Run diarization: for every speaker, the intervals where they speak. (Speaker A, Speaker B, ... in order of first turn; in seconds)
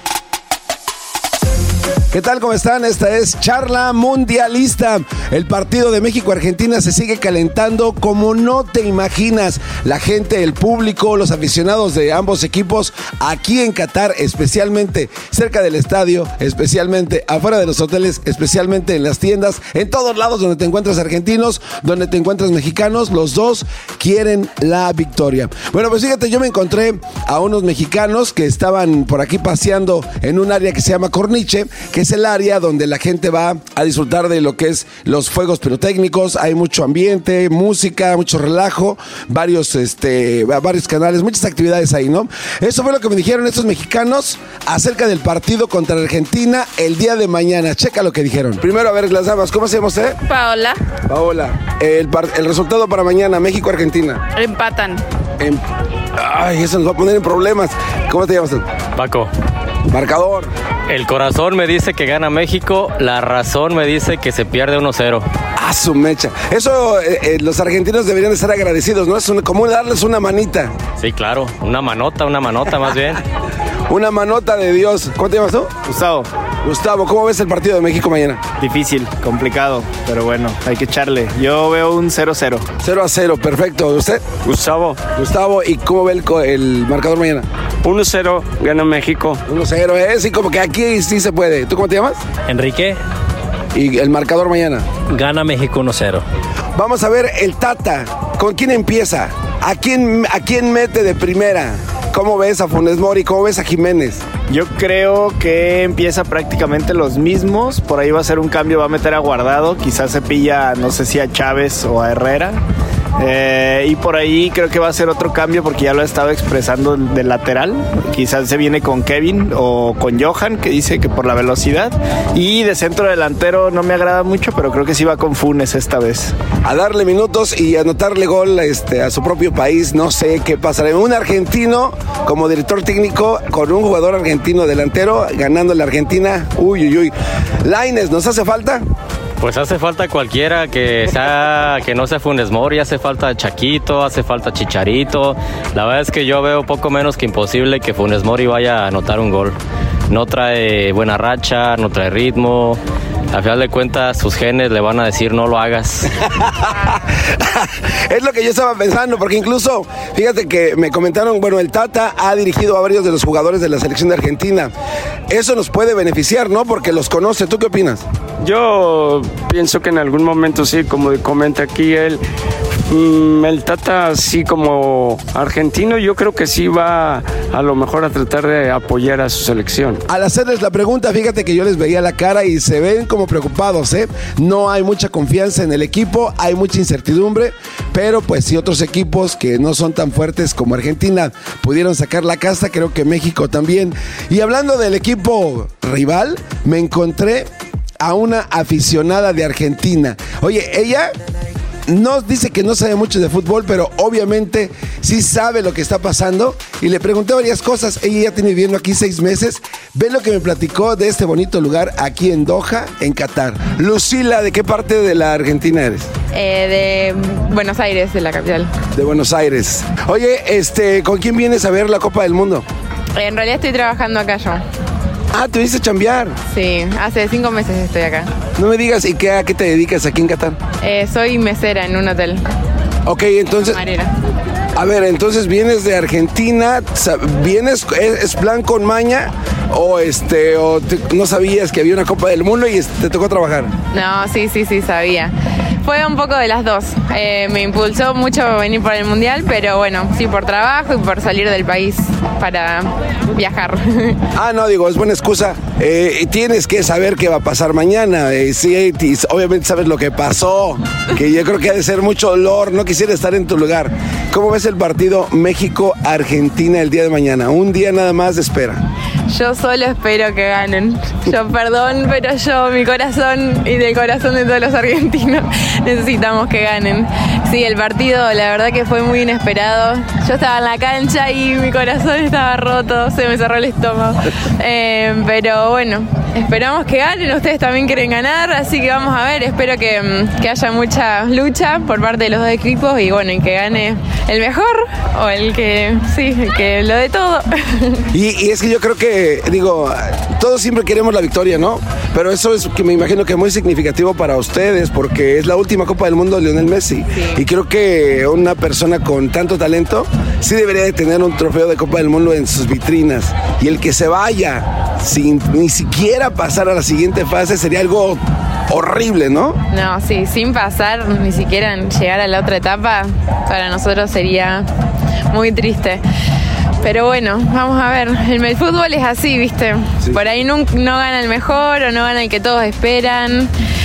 Speaker A: 2.1-50.2, 51.1-54.2, 56.2-58.6, 59.9-60.5, 65.6-70.7, 73.9-75.8, 76.6-78.5, 82.8-84.3, 85.2-87.5, 89.5-92.2, 93.8-94.9, 96.8-104.3, 126.6-137.1, 137.6-138.8, 158.1-164.7, 165.3-168.0, 180.1-197.5, 198.0-201.1, 201.9-216.1, 218.9-222.7, 225.3-226.4, 228.6-230.6, 233.1-233.8, 234.8-243.7, 254.4-268.8, 298.1-319.6
Speaker B: 50.3-50.8, 54.4-55.0, 216.3-218.7, 223.2-224.6, 226.5-228.3, 230.8-232.4, 233.7-234.1, 243.9-245.3, 245.8-254.2, 269.3-298.0, 319.7-324.7, 325.3-326.0, 326.8-333.5
Speaker C: 59.0-59.3, 60.9-65.3, 71.0-73.2, 92.5-93.0, 95.1-96.2, 139.4-149.6, 150.1-152.8, 153.3-156.1
Speaker D: 75.8-76.3, 78.6-82.7, 104.4-112.6, 113.2-126.3
Speaker E: 84.4-85.0, 87.8-89.4, 168.4-172.2, 172.9-180.0